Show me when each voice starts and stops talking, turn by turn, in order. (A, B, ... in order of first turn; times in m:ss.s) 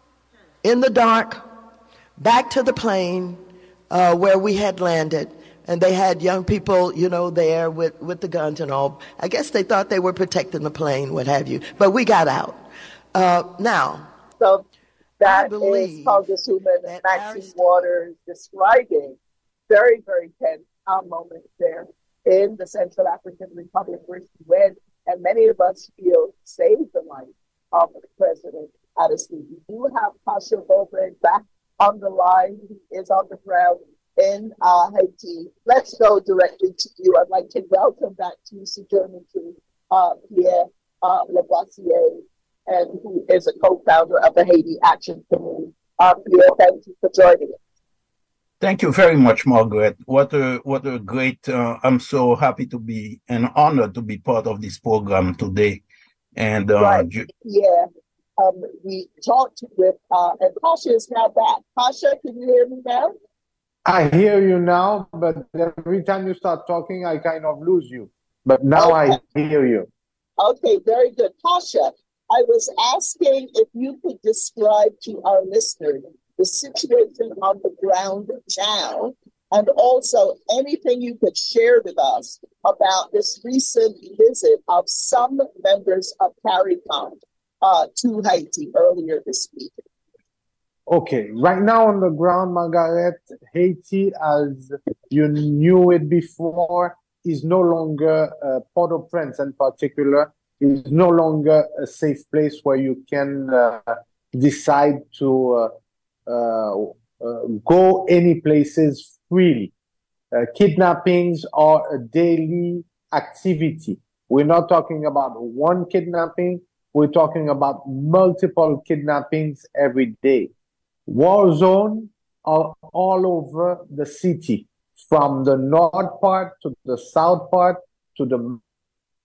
0:00.6-0:01.4 A
0:02.2-0:12.6 A
0:13.1-0:14.1 A
0:14.4-0:14.6 B
0:15.2-0:19.2 B
0:15.2-0:17.9 A
0:19.7-0:47.6 B
0:48.6-0:55.8 C
0:56.4-0:57.3 C
0:56.8-1:03.1 B
1:03.9-1:09.9 D
1:08.8-1:09.2 B
1:10.4-1:29.8 B
1:30.9-1:45.7 D
1:46.3-1:49.7 D
1:50.3-2:00.5 D
2:01.1-2:08.6 D